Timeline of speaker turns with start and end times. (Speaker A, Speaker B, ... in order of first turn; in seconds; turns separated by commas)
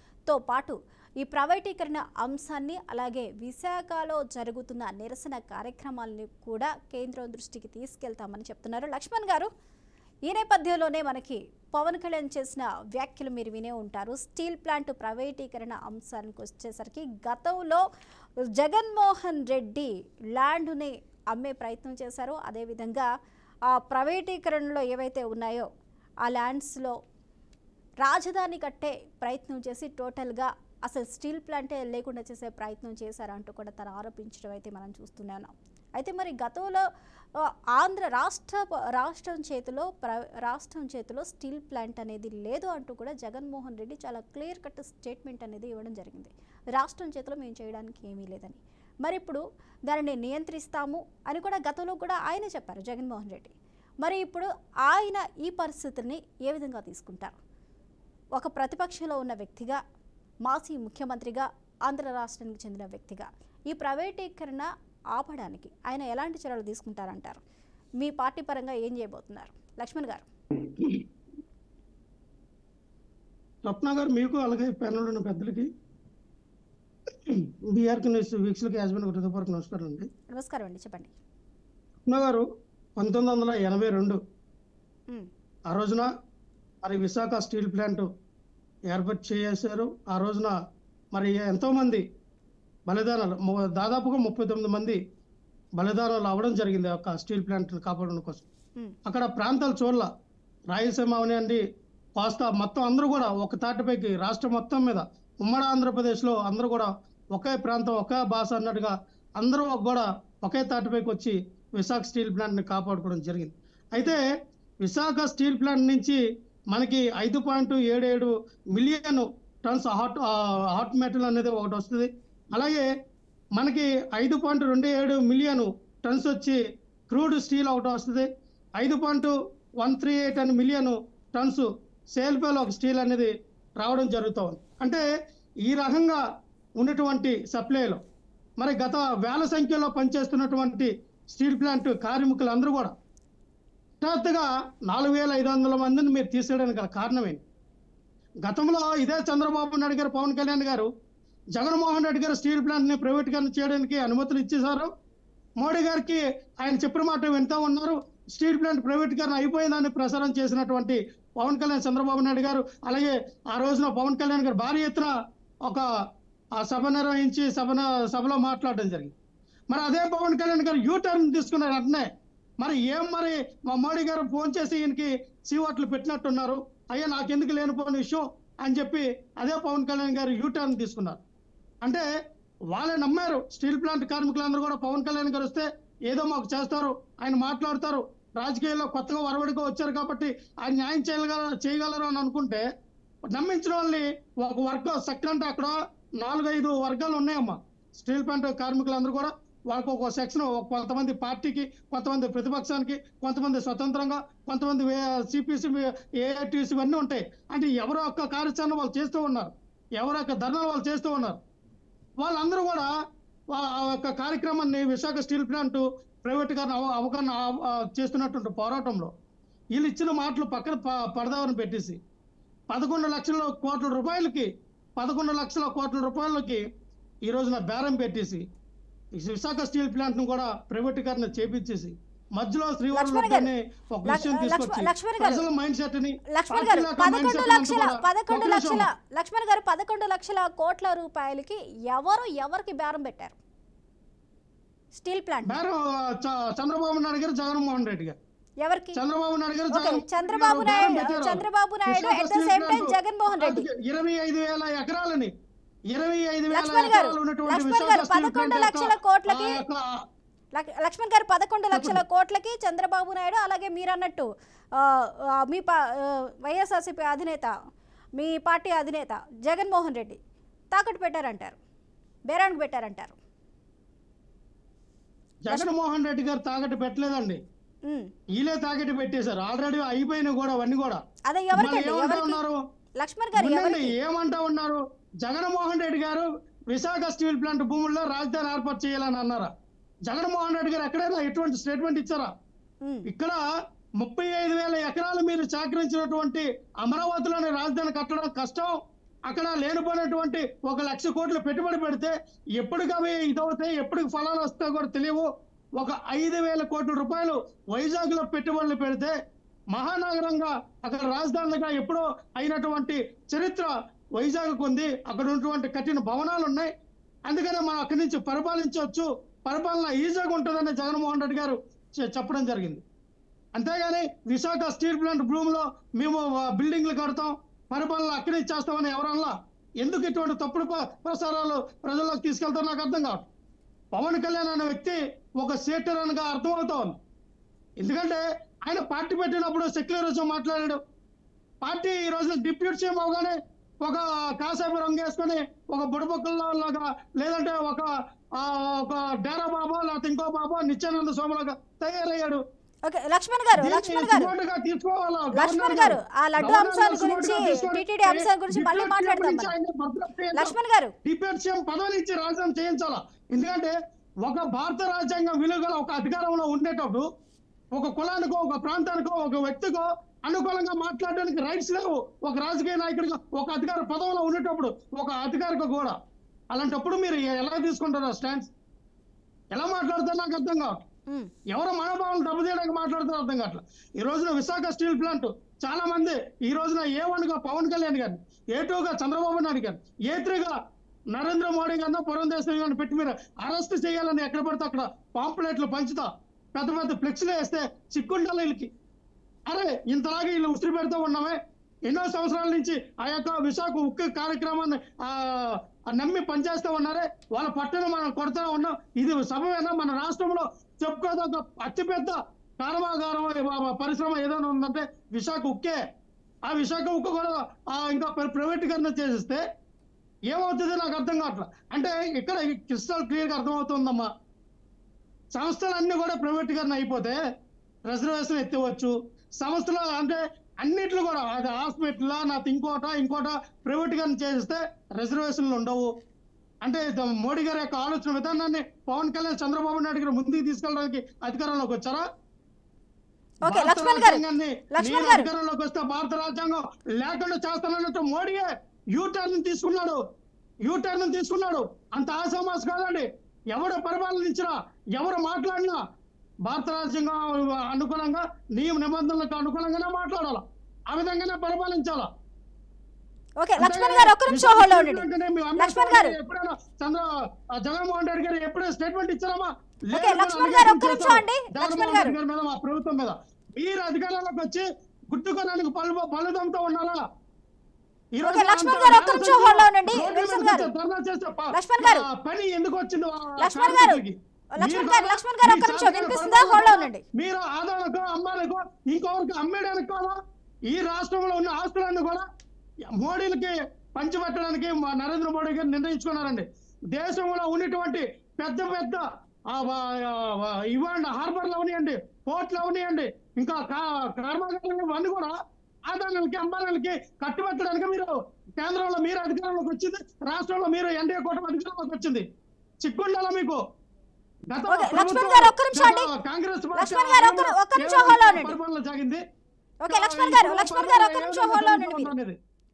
Speaker A: 0.3-9.5, Speaker A: 10.3-17.8, Speaker A: 18.6-23.1, Speaker A: 23.7-25.7, Speaker A: 26.2-26.9, Speaker A: 28.0-36.8, Speaker A: 37.8-57.4, Speaker A: 58.4-59.8, Speaker A: 60.5-67.4, Speaker A: 68.0-70.2, Speaker B: 70.8-71.0, Speaker B: 73.7-75.7, Speaker B: 77.3-80.1, Speaker A: 80.3-81.1, Speaker B: 82.1-82.5, Speaker B: 83.0-84.2, Speaker B: 85.7-86.1, Speaker B: 86.8-88.1, Speaker B: 88.9-90.5, Speaker B: 91.1-92.0, Speaker B: 92.9-95.0, Speaker B: 95.8-98.5, Speaker B: 99.0-100.1, Speaker B: 100.7-101.6, Speaker B: 102.2-114.2, Speaker B: 114.8-116.2, Speaker B: 116.7-122.8, Speaker B: 123.6-128.3, Speaker B: 128.8-135.0, Speaker B: 135.7-136.2, Speaker B: 136.8-138.0, Speaker B: 138.6-142.9, Speaker B: 144.0-147.4, Speaker B: 148.4-150.9, Speaker B: 151.6-154.9, Speaker B: 155.6-165.1, Speaker B: 166.6-169.1, Speaker B: 169.7-172.1, Speaker B: 172.6-181.2, Speaker B: 182.7-192.6, Speaker B: 193.3-211.4, Speaker B: 212.2-212.9, Speaker B: 213.5-219.1, Speaker B: 219.7-222.0, Speaker B: 222.7-226.6, Speaker B: 227.2-228.4, Speaker B: 229.2-238.9, Speaker A: 232.9-233.5, Speaker A: 234.0-235.4, Speaker A: 236.3-243.4, Speaker A: 244.9-245.6, Speaker B: 245.4-248.2, Speaker A: 248.6-249.0, Speaker B: 248.9-255.3, Speaker A: 249.7-253.7, Speaker B: 255.9-259.9, Speaker A: 256.5-259.6, Speaker A: 260.5-267.5, Speaker B: 261.7-262.0, Speaker A: 268.2-270.2, Speaker A: 270.7-271.6, Speaker A: 272.3-273.2, Speaker B: 275.4-277.4, Speaker B: 278.4-281.0, Speaker A: 281.3-282.4, Speaker B: 281.5-282.6, Speaker A: 283.0-283.9, Speaker B: 283.4-289.5, Speaker B: 290.1-292.3, Speaker B: 293.1-293.4, Speaker B: 294.0-298.8, Speaker B: 299.3-309.1, Speaker B: 309.7-316.7, Speaker B: 317.3-322.8, Speaker B: 323.6-333.3, Speaker B: 333.9-337.0, Speaker B: 337.8-340.8, Speaker B: 341.6-347.9, Speaker B: 348.4-352.4, Speaker A: 352.9-354.3, Speaker B: 353.6-360.5, Speaker A: 355.3-359.5, Speaker A: 360.3-360.9, Speaker B: 361.0-367.1, Speaker B: 367.7-375.9, Speaker B: 376.5-378.5, Speaker B: 379.5-380.8, Speaker B: 381.5-390.5, Speaker B: 391.1-398.7, Speaker B: 399.5-401.4, Speaker B: 401.9-415.8, Speaker B: 416.5-419.4, Speaker B: 420.3-424.1, Speaker B: 425.3-427.2, Speaker B: 427.9-435.9, Speaker B: 436.6-442.0, Speaker A: 443.4-444.2, Speaker B: 443.4-450.0, Speaker A: 444.7-445.3, Speaker B: 450.7-455.8, Speaker B: 456.5-462.1, Speaker A: 463.4-465.1, Speaker B: 463.6-467.1, Speaker A: 465.6-466.1, Speaker B: 467.6-477.0, Speaker A: 469.9-472.1, Speaker B: 478.1-490.2, Speaker A: 478.2-480.7, Speaker A: 481.5-482.1, Speaker A: 483.4-484.0, Speaker A: 484.6-487.0, Speaker B: 490.7-492.2, Speaker B: 492.9-505.3, Speaker B: 505.9-512.2, Speaker B: 512.8-513.6, Speaker B: 514.5-519.2, Speaker A: 514.7-516.1, Speaker A: 516.7-518.6, Speaker A: 519.8-522.1, Speaker B: 519.9-522.4